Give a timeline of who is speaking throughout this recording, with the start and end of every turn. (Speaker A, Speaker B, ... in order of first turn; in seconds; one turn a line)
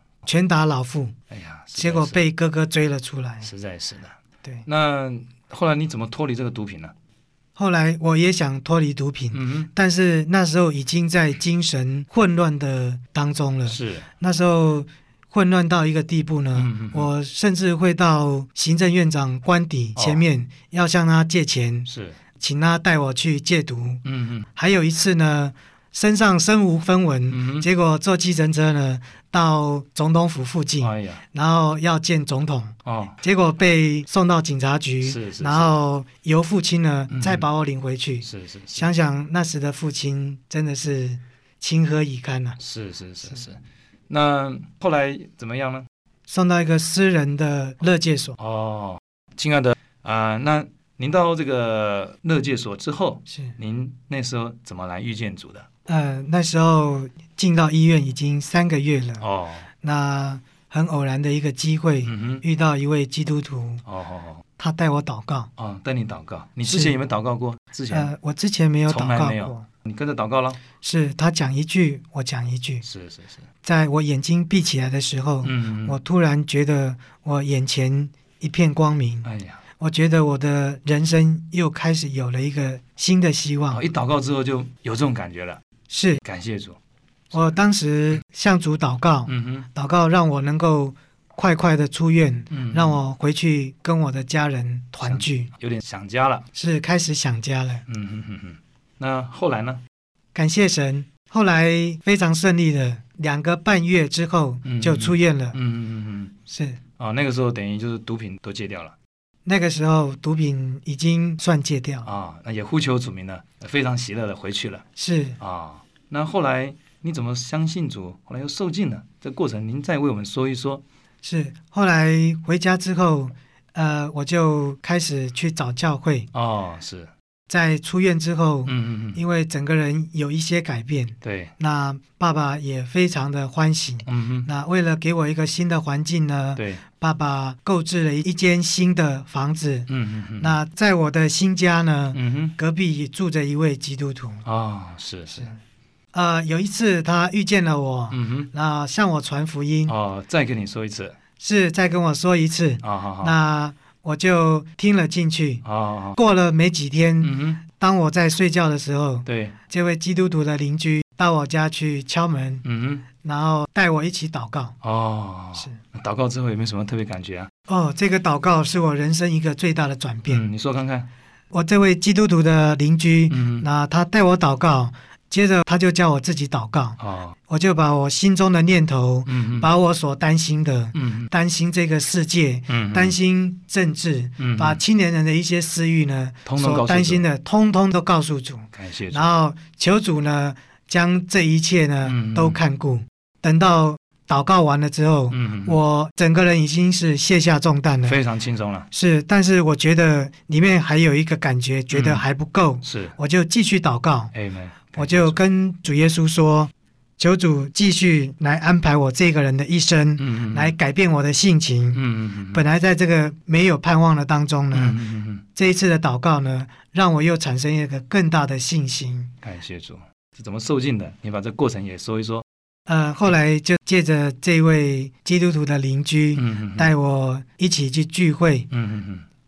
Speaker A: 0.2-1.1
Speaker B: 1.3-2.2
Speaker A: 1.8-3.5
Speaker B: 3.4-4.2
Speaker B: 4.7-6.9
Speaker A: 7.6-24.0
Speaker B: 9.3-9.7
Speaker B: 13.7-14.1
Speaker B: 16.6-17.1
Speaker B: 20.0-20.2
Speaker B: 21.9-22.2
Speaker B: 24.1-24.5
Speaker A: 24.5-42.6
Speaker B: 27.3-27.7
Speaker B: 30.8-31.2
Speaker B: 32.9-33.2
Speaker B: 35.0-35.8
Speaker B: 37.1-37.5
Speaker B: 38.2-38.9
Speaker B: 42.6-43.6
Speaker B: 44.1-45.9
Speaker A: 46.3-48.4
Speaker B: 48.4-55.7
Speaker A: 53.3-53.6
Speaker A: 55.9-59.2
Speaker B: 59.2-59.7
Speaker A: 59.8-63.8
Speaker B: 62.0-62.4
Speaker B: 63.9-64.4
Speaker A: 64.6-65.5
Speaker B: 65.6-68.1
Speaker A: 66.7-67.0
Speaker A: 67.9-69.7
Speaker B: 68.9-70.6
Speaker A: 70.8-72.8
Speaker B: 72.8-73.4
Speaker A: 73.6-83.8
Speaker B: 75.4-76.0
Speaker B: 79.2-79.6
Speaker B: 83.7-85.6
Speaker A: 85.9-86.2
Speaker B: 86.2-86.8
Speaker A: 87.3-95.5
Speaker B: 89.3-89.7
Speaker B: 92.5-93.0
Speaker B: 95.0-96.5
Speaker A: 96.5-97.8
Speaker B: 97.9-99.8
Speaker A: 100.3-105.6
Speaker B: 104.7-106.3
Speaker A: 106.5-106.8
Speaker B: 107.0-109.0
Speaker A: 109.5-112.1
Speaker B: 112.0-114.8
Speaker A: 115.0-115.4
Speaker B: 115.4-120.8
Speaker A: 121.2-126.3
Speaker B: 126.3-127.1
Speaker A: 127.5-144.4
Speaker B: 128.7-129.2
Speaker B: 131.2-131.5
Speaker B: 134.1-134.5
Speaker B: 136.6-136.8
Speaker B: 139.9-140.6
Speaker B: 142.1-142.6
Speaker B: 144.4-145.5
Speaker A: 145.3-145.6
Speaker A: 146.1-149.9
Speaker B: 148.1-148.5
Speaker B: 149.9-151.2
Speaker A: 151.4-155.6
Speaker B: 152.8-153.4
Speaker B: 155.6-156.2
Speaker A: 156.2-162.6
Speaker B: 157.2-157.6
Speaker B: 159.3-159.6
Speaker B: 162.6-163.1
Speaker A: 163.2-164.8
Speaker B: 164.8-167.5
Speaker A: 167.7-170.5
Speaker B: 170.3-171.1
Speaker A: 171.5-198.2
Speaker B: 173.3-173.7
Speaker B: 177.0-177.3
Speaker B: 179.3-179.7
Speaker B: 180.9-181.3
Speaker B: 182.7-183.2
Speaker B: 184.4-184.8
Speaker B: 186.5-187.3
Speaker B: 188.7-189.3
Speaker B: 192.0-192.6
Speaker B: 195.3-195.8
Speaker B: 198.1-198.9
Speaker A: 198.9-204.3
Speaker B: 201.9-202.2
Speaker B: 202.8-203.2
Speaker B: 204.3-205.4
Speaker A: 205.0-212.0
Speaker B: 210.2-210.7
Speaker B: 211.9-212.6
Speaker A: 212.5-215.0
Speaker B: 214.7-215.4
Speaker A: 215.6-219.3
Speaker B: 219.4-222.4
Speaker A: 222.9-228.7
Speaker B: 226.4-226.9
Speaker B: 228.7-229.2